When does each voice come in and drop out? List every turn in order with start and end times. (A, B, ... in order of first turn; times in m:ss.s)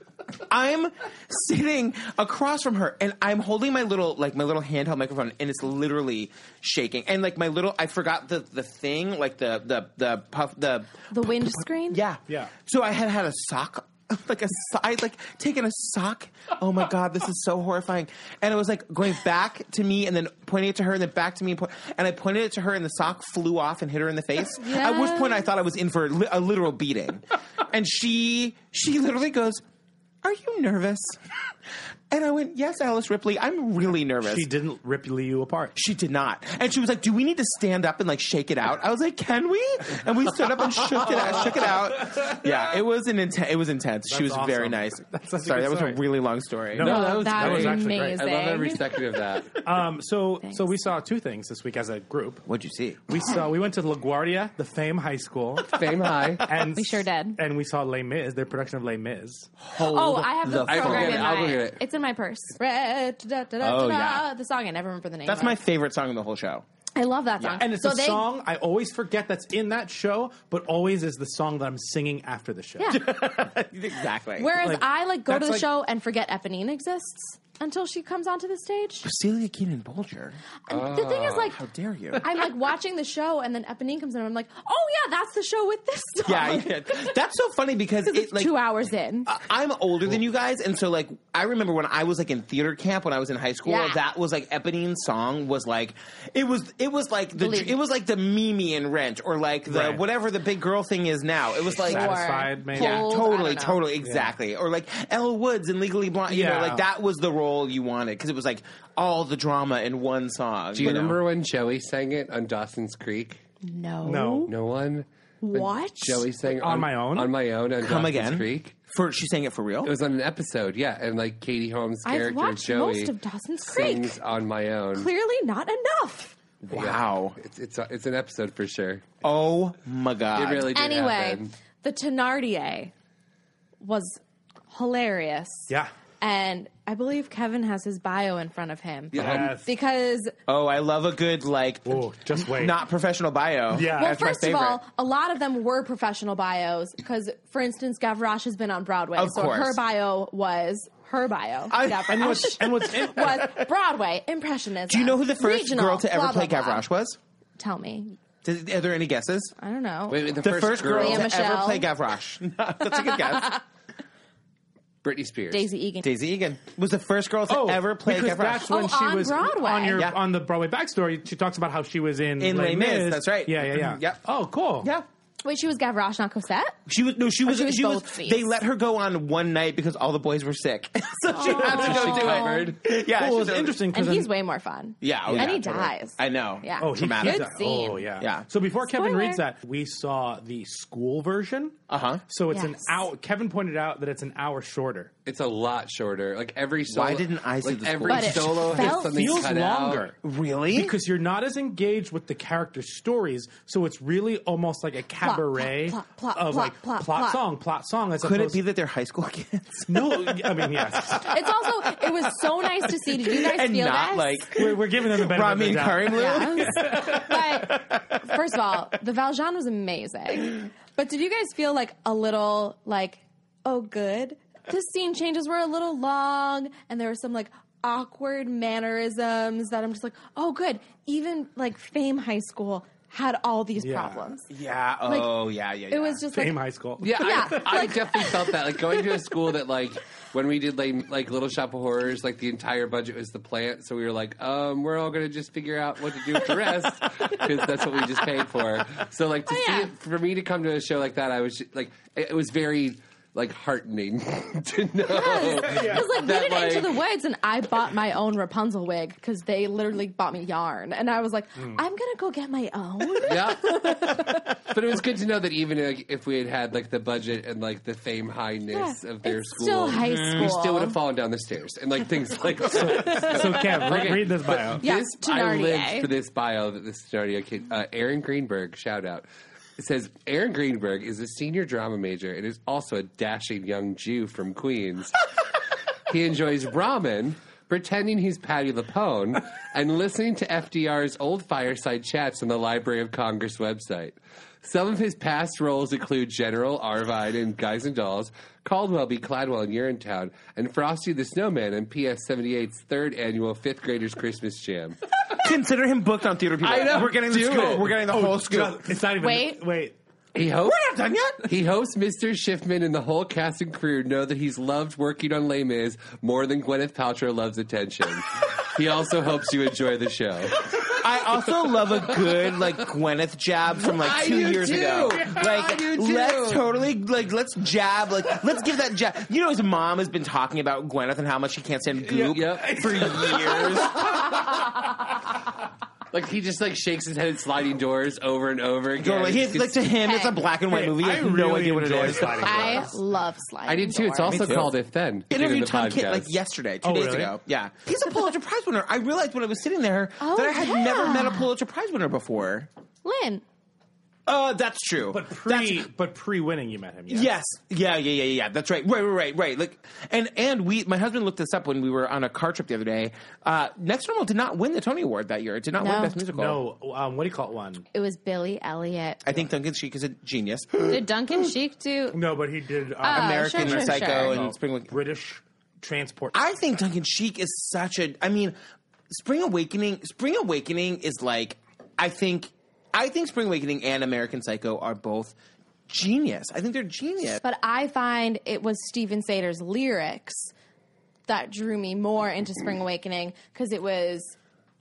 0:00.4-0:29.6 A
0:11.1-0:12.0 B
0:24.6-0:25.5 B
0:30.2-0:31.2 A
0:32.1-0:34.5 A
0:34.2-0:35.7 C
0:35.8-0:46.9 A
0:41.1-0:41.4 C
0:44.1-0:46.0 C
0:46.7-0:48.2 C
0:46.8-0:49.6 D
0:46.8-0:48.8 B
0:49.6-0:52.4 C
0:50.4-0:50.7 B
0:52.4-0:53.0 A
0:53.1-0:55.8 C
0:55.7-0:56.6 D
0:56.4-0:59.5 C
0:56.7-0:57.4 B
0:59.6-1:01.5 A
0:59.8-1:05.6 B
1:00.6-1:01.8 D
1:03.6-1:04.3 A
1:05.3-1:06.6 A
1:07.0-1:08.3 B
1:07.6-1:13.0 C
1:12.8-1:13.0 B
1:12.9-1:14.6 A
1:14.4-1:19.1 B
1:14.6-1:15.7 C
1:19.0-1:20.4 A
1:20.7-1:21.6 B
1:20.7-1:21.5 D
1:21.5-1:22.2 A
1:22.2-1:27.1 B
1:26.2-1:28.6 A
1:28.1-1:29.3 B
1:29.3-1:42.2 A
1:33.6-1:34.0 B
1:37.4-1:37.8 B
1:39.7-1:40.0 C
1:41.8-1:43.1 C
1:41.9-1:43.8 B
1:42.7-1:51.2 A
1:44.0-1:44.3 C
1:46.3-1:46.9 C
1:50.7-1:53.4 D
1:53.6-1:54.5 B
1:54.0-1:54.5 C
1:54.5-1:58.7 D
1:55.4-1:56.3 B
1:56.5-1:57.3 C
1:57.8-1:59.9 A
1:59.8-2:03.1 D
2:02.0-2:04.2 B
2:03.7-2:05.1 D
2:05.0-2:06.3 B
2:06.7-2:07.4 A
2:06.7-2:09.0 D
2:09.2-2:10.7 A
2:10.4-2:11.5 D
2:10.7-2:12.9 B
2:13.8-2:20.3 B
2:19.1-2:19.6 D
2:19.2-2:19.7 C
2:20.5-2:24.8 A
2:21.9-2:22.8 C
2:23.7-2:24.2 C
2:24.0-2:36.9 B
2:29.2-2:29.8 A
2:31.7-2:33.4 A
2:32.1-2:33.6 C
2:34.9-2:37.2 A
2:37.6-2:38.2 B
2:38.4-2:39.5 A
2:39.6-2:41.9 B
2:40.1-2:41.3 D
2:40.4-2:43.6 A
2:42.9-2:43.6 B
2:45.0-2:45.7 D
2:45.5-2:46.1 B
2:46.0-2:48.7 A
2:47.5-2:54.9 C
2:48.6-2:50.1 B
2:49.9-2:50.2 A
2:52.4-2:54.2 A
2:54.8-2:55.1 A
2:55.4-2:56.8 B
2:56.9-3:03.8 A
2:57.4-2:58.5 B
3:01.3-3:02.7 B
3:01.5-3:02.8 D
3:01.8-3:02.2 C
3:03.0-3:04.3 C
3:03.9-3:08.1 B
3:05.0-3:07.7 A
3:05.3-3:05.6 C
3:06.8-3:15.1 C
3:08.2-3:08.5 A
3:08.9-3:09.4 B
3:11.9-3:12.2 A
3:12.5-3:12.9 B
3:15.3-3:20.1 D
3:16.9-3:19.0 A
3:18.1-3:19.2 B
3:18.8-3:20.2 C
3:20.2-3:21.0 A
3:20.7-3:28.6 C
3:25.2-3:27.4 B
3:28.2-3:31.2 A
3:29.9-3:31.3 C
3:31.2-3:34.5 B
3:33.2-3:37.0 A
3:34.6-3:37.8 C
3:36.1-3:54.5 B
3:53.8-3:54.3 C
3:54.5-3:56.2 A
3:55.0-3:58.4 B
3:56.3-3:57.9 C
3:57.0-4:17.0 D
4:09.5-4:09.9 B
4:15.1-4:24.6 B
4:15.6-4:16.0 C
4:23.2-4:39.3 D
4:28.7-4:31.0 B
4:30.0-4:30.5 A
4:32.7-4:34.8 C
4:32.9-4:33.4 B
4:34.8-4:36.1 B
4:39.8-4:45.2 D
4:46.1-5:05.0 D
5:05.3-5:09.0 A
5:06.6-5:08.0 D
5:07.4-5:10.0 C
5:09.2-5:09.6 B
5:10.4-5:10.8 D
5:10.6-5:11.5 A
5:11.4-5:20.8 D
5:20.9-5:34.3 A
5:23.8-5:26.7 D
5:32.1-5:33.8 C
5:32.2-5:34.2 D
5:36.1-5:39.9 D
5:39.0-5:42.9 A
5:40.0-5:40.4 B
5:40.7-5:43.0 C
5:42.1-5:44.6 B
5:43.7-5:46.3 D
5:44.2-5:44.8 A
5:45.3-5:52.7 A
5:46.8-5:47.4 C
5:50.2-5:51.5 B
5:53.0-5:53.4 B
5:54.3-5:55.9 A
5:55.1-5:57.3 C
5:57.1-6:06.6 A
6:05.8-6:06.2 B
6:06.3-6:07.8 C
6:07.9-6:09.3 B
6:09.2-6:11.1 A
6:10.9-6:12.2 B
6:12.1-6:16.4 C
6:13.0-6:14.4 B
6:13.1-6:14.9 A
6:16.3-6:18.6 A
6:19.1-6:25.4 A
6:25.9-6:27.4 A
6:27.4-6:30.5 B
6:31.3-6:34.4 B